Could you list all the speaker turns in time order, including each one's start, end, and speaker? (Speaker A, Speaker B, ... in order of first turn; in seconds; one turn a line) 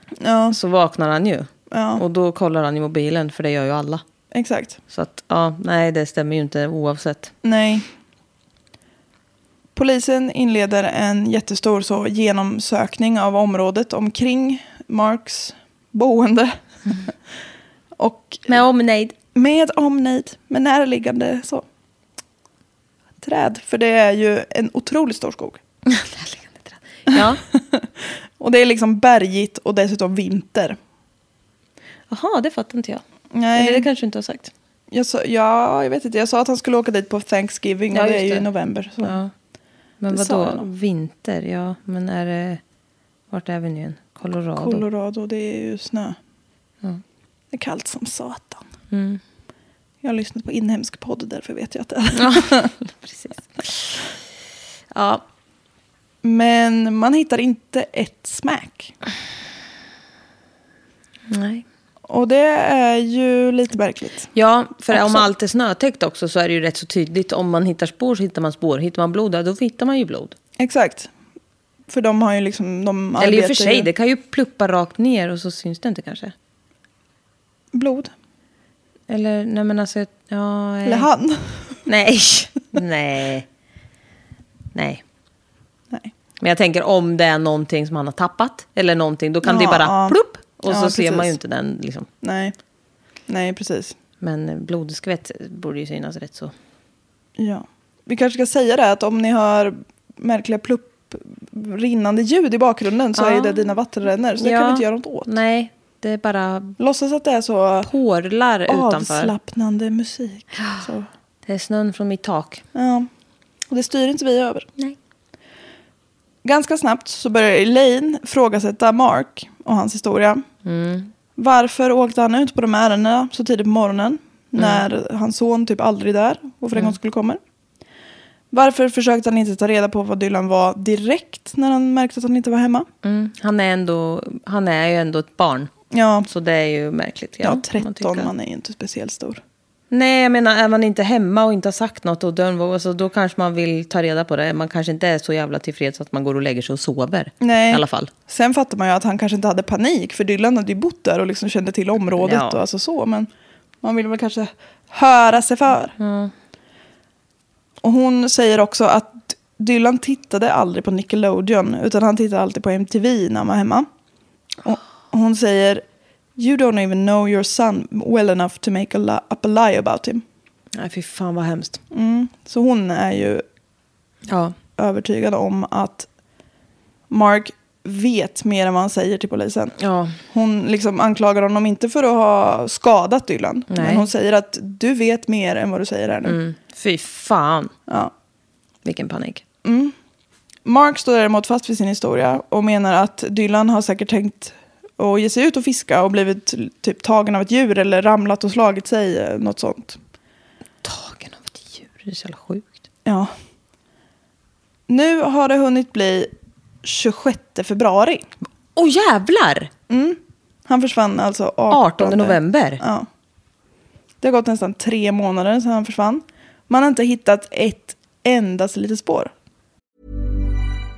Speaker A: 0.2-0.6
Speaker B: 0.5-4.0
Speaker A: 1.7-2.0
Speaker A: 4.3-4.8
Speaker B: 4.9-7.3
Speaker A: 7.4-7.9
Speaker A: 9.8-16.6
Speaker A: 18.0-18.6
Speaker B: 18.5-19.1
Speaker A: 19.3-21.6
Speaker A: 23.2-25.6
Speaker B: 25.9-27.4
Speaker A: 27.1-30.8
Speaker B: 32.1-33.0
Speaker A: 33.3-33.9
Speaker B: 33.5-34.5
Speaker A: 34.9-39.2
Speaker B: 37.9-38.5
Speaker B: 39.0-39.3
Speaker B: 40.0-42.6
Speaker A: 40.1-40.7
Speaker B: 43.3-44.8
Speaker A: 44.6-46.2
Speaker A: 47.5-48.6
Speaker B: 48.9-49.2
Speaker A: 50.0-52.7
Speaker B: 52.1-54.0
Speaker B: 54.9-55.2
Speaker A: 56.2-58.9
Speaker B: 61.3-61.6
Speaker A: 62.1-64.3
Speaker B: 64.3-70.3
Speaker A: 64.9-65.3
Speaker A: 70.6-71.1
Speaker A: 71.9-73.9
Speaker B: 73.2-76.3
Speaker A: 77.7-78.1
Speaker B: 79.1-81.1
Speaker A: 80.8-81.8
Speaker B: 81.9-83.5
Speaker B: 84.7-85.0
Speaker B: 86.4-92.1
Speaker A: 89.4-91.3
Speaker A: 92.2-92.5
Speaker A: 93.3-94.0
Speaker B: 94.2-96.5
Speaker A: 97.4-105.3
Speaker B: 103.2-103.7
Speaker B: 104.4-106.8
Speaker A: 106.8-107.9
Speaker B: 107.8-109.3
Speaker A: 108.7-111.1
Speaker B: 110.6-110.8
Speaker B: 111.5-112.6
Speaker A: 112.7-113.1
Speaker A: 113.7-114.7
Speaker A: 116.4-120.5
Speaker B: 120.7-121.1
Speaker A: 121.4-127.4
Speaker B: 124.6-124.8
Speaker A: 128.5-132.9
Speaker B: 133.0-135.7
Speaker A: 135.9-136.3
Speaker B: 136.3-138.3
Speaker A: 137.4-139.4
Speaker B: 139.9-148.1
Speaker A: 147.4-153.3
Speaker B: 152.2-152.6
Speaker A: 153.8-155.9
Speaker B: 156.0-156.3
Speaker A: 157.8-163.9
Speaker A: 164.6-165.8
Speaker A: 166.4-170.2
Speaker B: 170.8-171.8
Speaker A: 171.9-173.4
Speaker B: 174.3-174.6
Speaker A: 174.8-176.1
Speaker A: 177.1-179.8
Speaker B: 179.8-180.2
Speaker A: 180.3-186.4
Speaker B: 183.7-184.1
Speaker B: 186.2-187.7
Speaker B: 188.8-189.4
Speaker A: 189.6-189.9
Speaker A: 190.7-200.0
Speaker B: 200.8-202.7
Speaker A: 203.1-203.3
Speaker A: 204.9-206.3
Speaker A: 206.8-208.2
Speaker B: 208.8-209.7
Speaker A: 209.9-213.1
Speaker B: 211.7-212.8
Speaker A: 214.2-219.3